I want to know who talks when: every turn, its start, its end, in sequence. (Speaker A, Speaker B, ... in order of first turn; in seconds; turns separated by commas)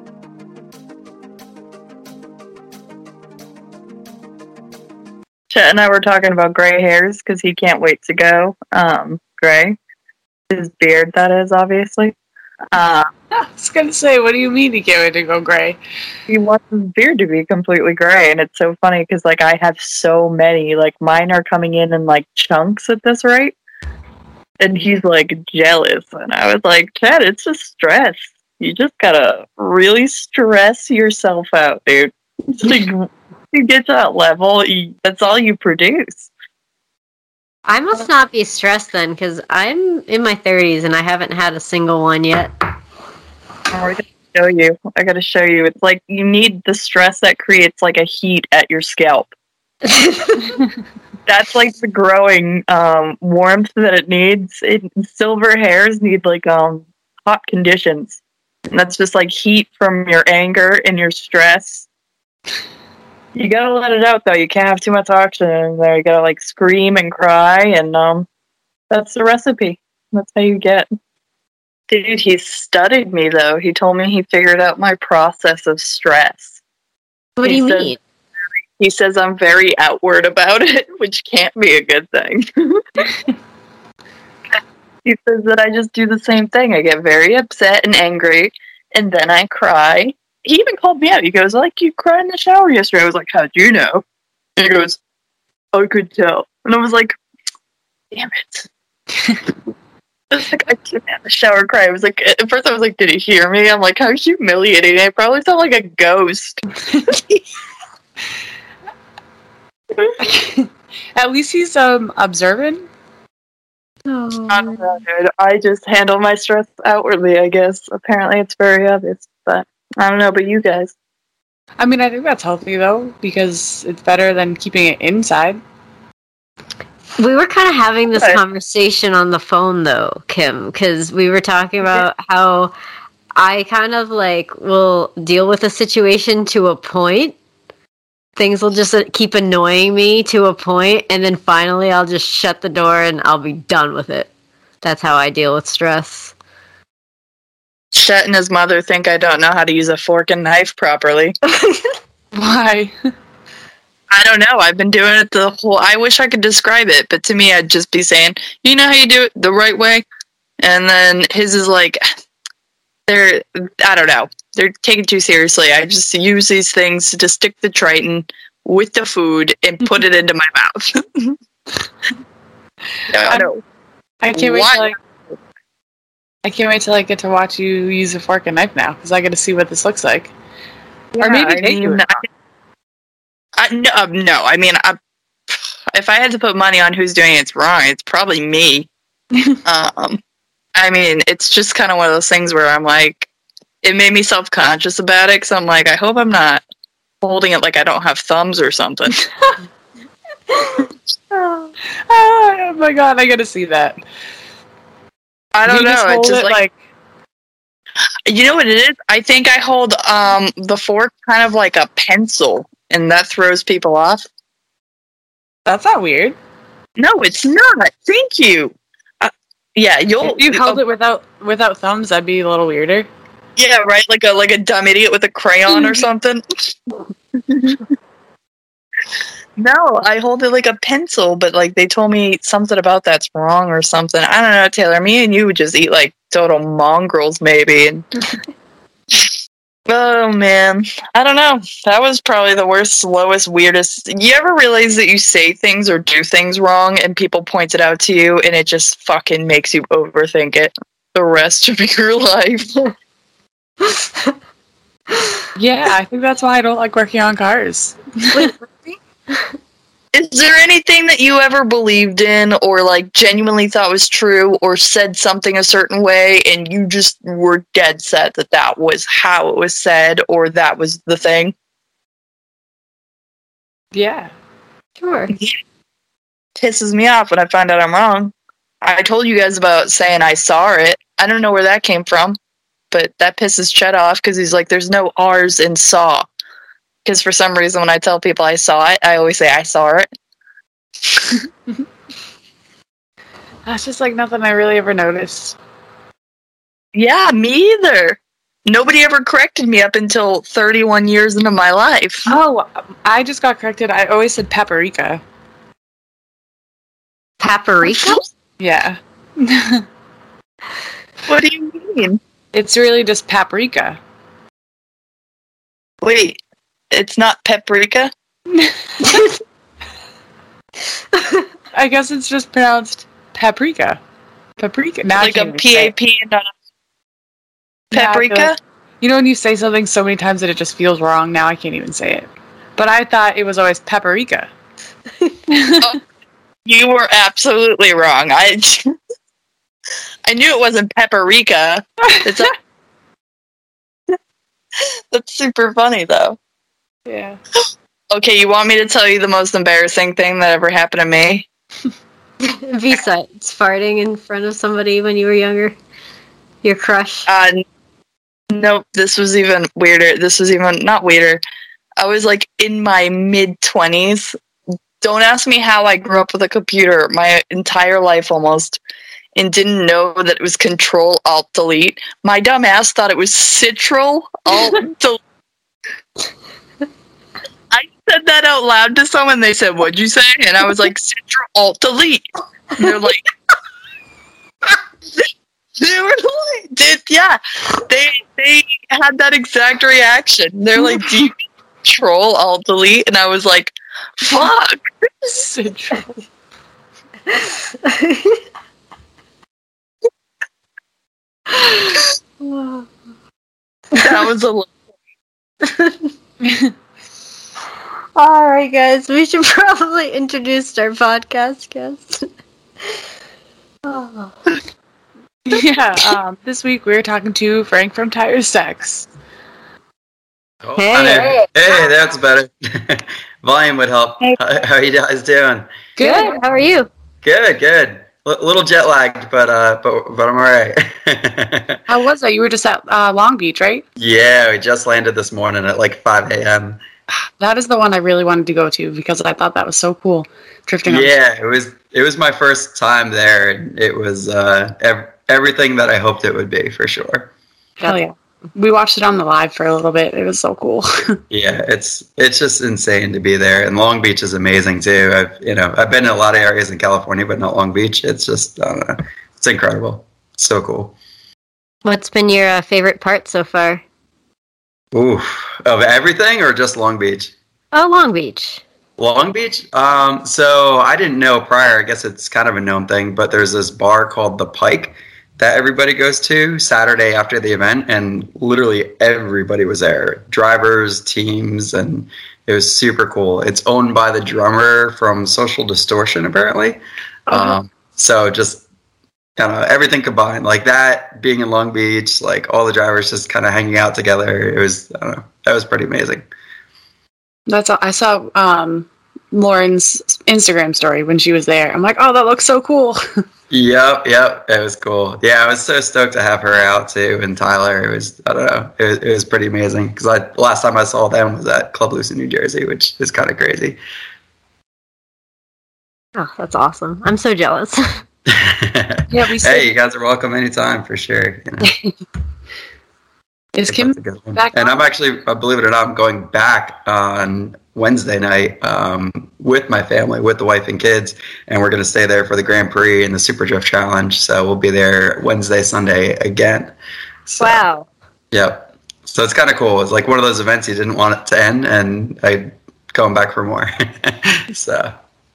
Speaker A: 5.5-9.8, Speaker A: 10.5-12.1, Speaker A: 12.7-13.1, Speaker B: 13.3-15.8, Speaker A: 16.3-23.6, Speaker A: 24.6-36.3, Speaker C: 37.7-42.5, Speaker A: 43.7-49.3, Speaker A: 51.2-58.2, Speaker A: 58.7-61.9, Speaker A: 63.3-68.3, Speaker A: 68.9-70.9, Speaker A: 71.9-76.6, Speaker C: 77.4-78.0, Speaker A: 77.4-77.9, Speaker A: 78.8-83.0, Speaker A: 85.0-94.0, Speaker A: 94.6-95.0, Speaker A: 95.7-97.2, Speaker A: 98.1-98.7, Speaker A: 100.3-106.6, Speaker B: 106.9-107.2, Speaker B: 110.2-112.8, Speaker C: 114.1-115.0, Speaker A: 114.5-120.9, Speaker B: 121.8-125.6, Speaker C: 127.2-132.7, Speaker A: 128.1-128.4, Speaker C: 133.3-137.3, Speaker C: 138.4-144.3, Speaker C: 144.8-146.3, Speaker A: 147.9-151.4, Speaker B: 152.3-152.9, Speaker A: 154.1-160.0, Speaker A: 160.6-162.0, Speaker A: 163.1-171.4, Speaker A: 173.1-173.6, Speaker B: 173.2-173.5, Speaker B: 174.2-174.9, Speaker A: 174.3-174.9, Speaker B: 176.4-180.3, Speaker A: 181.2-182.2, Speaker B: 181.2-182.1, Speaker A: 183.6-185.0, Speaker A: 185.9-188.9, Speaker A: 189.6-190.2, Speaker A: 190.8-193.3, Speaker A: 193.8-196.6, Speaker A: 197.2-199.2, Speaker B: 202.1-204.0, Speaker A: 205.5-206.6, Speaker B: 205.7-206.7, Speaker A: 208.2-214.2, Speaker B: 215.7-216.3, Speaker A: 217.0-220.8, Speaker B: 220.2-223.1, Speaker A: 223.6-226.4, Speaker A: 227.5-227.8, Speaker A: 229.6-238.1, Speaker A: 239.9-252.7, Speaker B: 255.6-258.6, Speaker A: 260.1-271.5, Speaker B: 273.9-274.3, Speaker C: 275.0-275.3, Speaker A: 276.6-282.4, Speaker A: 282.9-286.2, Speaker A: 287.0-290.1, Speaker B: 293.6-295.6, Speaker A: 296.9-302.3, Speaker B: 302.3-305.2, Speaker C: 307.4-308.2, Speaker B: 308.6-309.8, Speaker A: 311.3-312.2, Speaker B: 312.5-314.0, Speaker A: 316.0-316.4, Speaker A: 316.9-318.1, Speaker B: 318.5-319.3, Speaker B: 321.7-324.0, Speaker B: 324.6-325.9, Speaker A: 325.2-326.5, Speaker B: 327.9-334.5, Speaker A: 327.9-328.6, Speaker B: 335.5-335.9, Speaker A: 336.6-338.9, Speaker A: 340.2-342.6, Speaker A: 344.8-346.4, Speaker B: 347.1-347.4, Speaker A: 348.1-351.5, Speaker C: 352.4-355.8, Speaker C: 356.6-357.3, Speaker A: 357.3-357.6, Speaker A: 358.5-361.4, Speaker A: 362.0-364.4, Speaker A: 365.0-368.8, Speaker A: 369.4-375.2, Speaker A: 377.7-383.2, Speaker A: 385.8-395.3, Speaker B: 395.3-396.1, Speaker C: 397.8-398.4, Speaker C: 401.6-402.8, Speaker A: 403.9-404.7, Speaker C: 405.7-405.9, Speaker B: 406.4-406.7, Speaker C: 408.1-412.3, Speaker C: 413.9-414.3, Speaker B: 415.5-419.1, Speaker D: 420.6-425.7, Speaker C: 420.8-421.5, Speaker B: 426.0-426.4, Speaker C: 426.0-426.9, Speaker D: 427.2-431.8, Speaker B: 431.9-433.9, Speaker D: 434.0-436.8, Speaker B: 437.4-441.1, Speaker D: 440.9-447.3, Speaker B: 447.8-451.2, Speaker D: 451.3-460.9, Speaker C: 461.8-463.8, Speaker D: 464.9-467.3, Speaker C: 467.7-468.6, Speaker D: 469.0-488.6, Speaker B: 487.3-487.6, Speaker D: 489.4-496.2, Speaker B: 497.5-503.0, Speaker D: 503.5-513.8, Speaker C: 516.1-518.0, Speaker D: 518.3-521.7, Speaker B: 519.1-519.7, Speaker B: 523.5-524.8, Speaker D: 523.7-536.7, Speaker D: 537.2-537.6, Speaker C: 537.4-537.9, Speaker D: 538.3-544.9